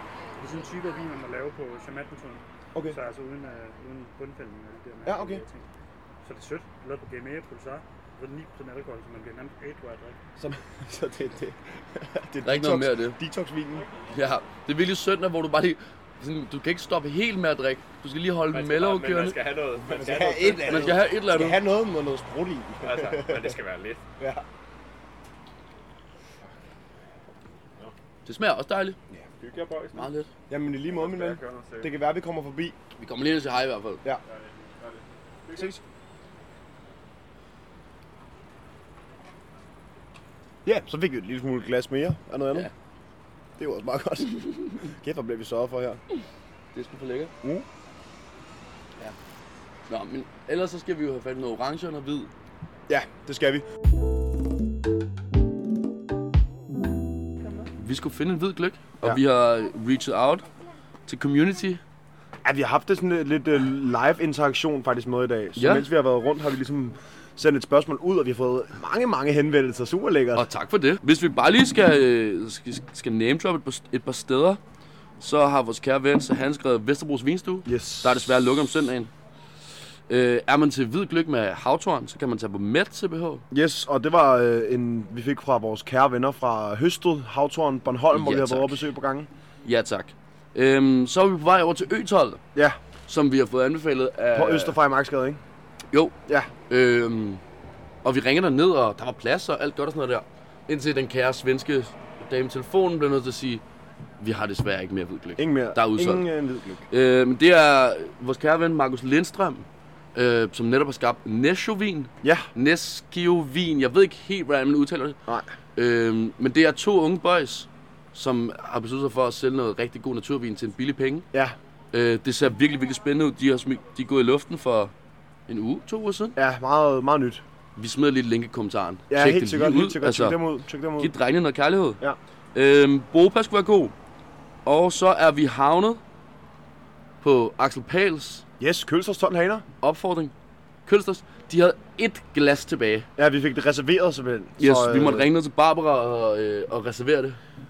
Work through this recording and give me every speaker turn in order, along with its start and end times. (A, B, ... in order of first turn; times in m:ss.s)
0:00.4-0:05.6 A
0:05.0-0:05.4 B
0:06.2-0:10.2 A
0:10.4-0:13.9 B
0:12.4-0:13.2 C
0:14.1-0:19.4 C
0:18.5-0:21.0 D
0:19.8-0:23.6 B
0:20.6-0:21.6 C
0:22.8-0:24.0 D
0:24.2-0:24.4 B
0:28.2-0:29.0 C
0:29.4-0:30.1 D
0:29.9-0:30.3 C
0:30.5-0:32.8 B
0:30.9-0:31.9 D
0:33.0-0:34.0 C
0:34.2-0:35.8 D
0:35.5-0:35.8 B
0:40.6-0:42.7 B
0:43.6-0:46.0 B
0:44.4-0:44.8 C
0:46.7-0:47.3 C
0:49.9-0:52.3 C
0:52.9-0:53.6 B
0:57.8-1:00.4 C
1:01.0-1:01.8 C
1:02.4-1:10.5 B
1:05.6-1:05.9 C
1:10.3-1:14.6 C
1:15.2-1:19.1 C
1:17.6-1:18.4 B
1:20.1-1:23.4 C
1:23.5-1:29.3 B
1:28.1-1:28.8 C
1:29.6-1:32.4 C
1:33.0-1:34.8 C
1:34.3-1:35.4 B
1:36.7-1:37.4 C
1:38.0-1:43.6 C
1:44.2-1:46.2 C
1:45.4-1:46.8 B
1:46.9-1:55.2 C
1:52.2-1:52.5 B
1:55.3-1:55.5 B
1:55.8-2:01.3 C
2:01.9-2:04.9 C
2:05.5-2:06.4 C
2:06.4-2:07.4 B
2:07.8-2:10.4 C
2:09.1-2:11.1 B
2:11.0-2:12.0 C
2:12.5-2:13.9 C
2:14.6-2:16.0 C
2:17.2-2:18.4 C
2:18.6-2:19.6 B
2:19.8-2:20.3 C
2:20.8-2:23.1 C
2:23.2-2:25.3 B
2:24.6-2:27.4 C